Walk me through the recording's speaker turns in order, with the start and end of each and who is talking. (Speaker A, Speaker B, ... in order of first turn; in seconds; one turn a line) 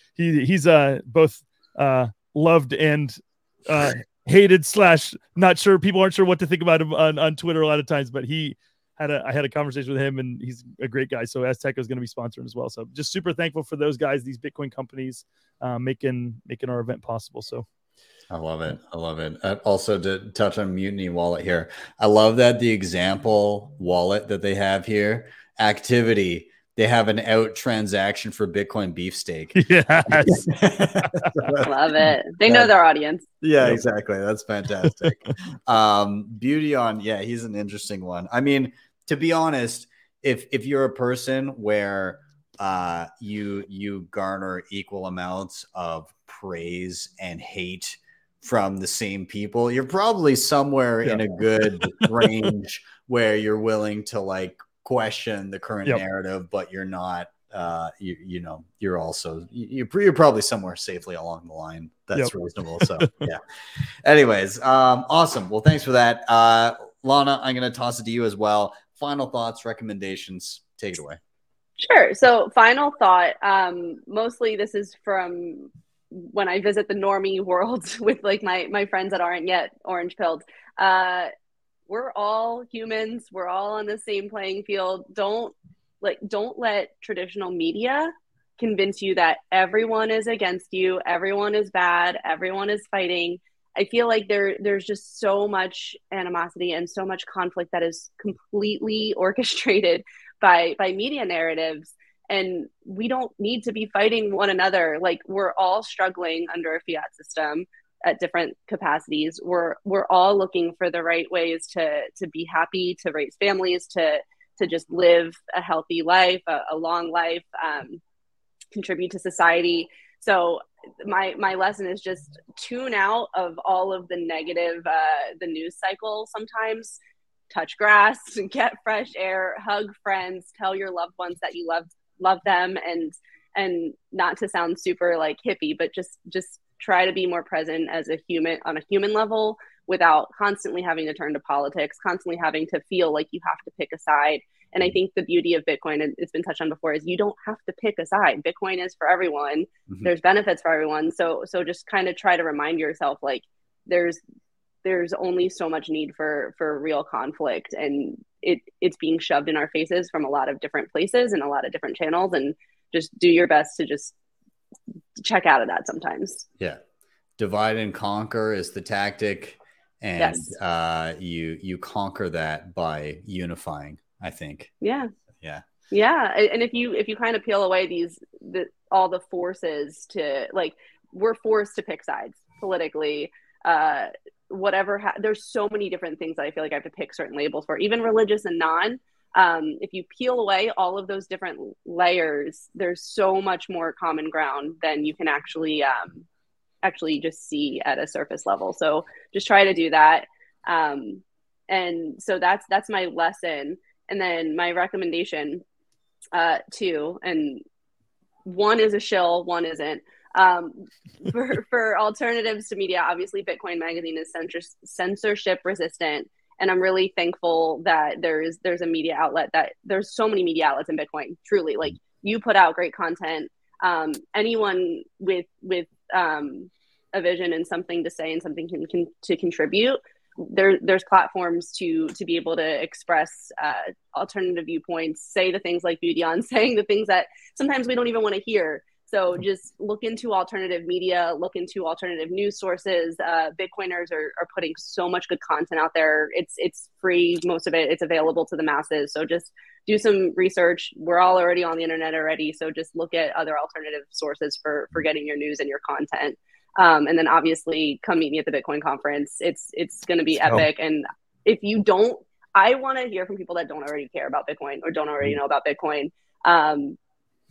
Speaker A: 0.1-17.6
Speaker B: 18.3-32.7
Speaker A: 29.6-31.5
Speaker C: 31.6-33.3
Speaker B: 33.4-63.4
Speaker A: 34.8-35.3
Speaker A: 52.0-52.3
Speaker A: 62.1-63.3
Speaker B: 64.0-71.2
Speaker C: 71.8-81.3
Speaker C: 81.9-118.0
Speaker C: 118.7-127.0
Speaker C: 127.5-154.2
Speaker C: 154.8-164.1
Speaker C: 165.2-166.4
Speaker B: 167.4-174.7
Speaker C: 170.2-170.5
Speaker C: 174.8-175.1
Speaker C: 175.9-196.2
Speaker C: 196.8-205.6
Speaker C: 206.3-207.6
Speaker C: 208.4-267.0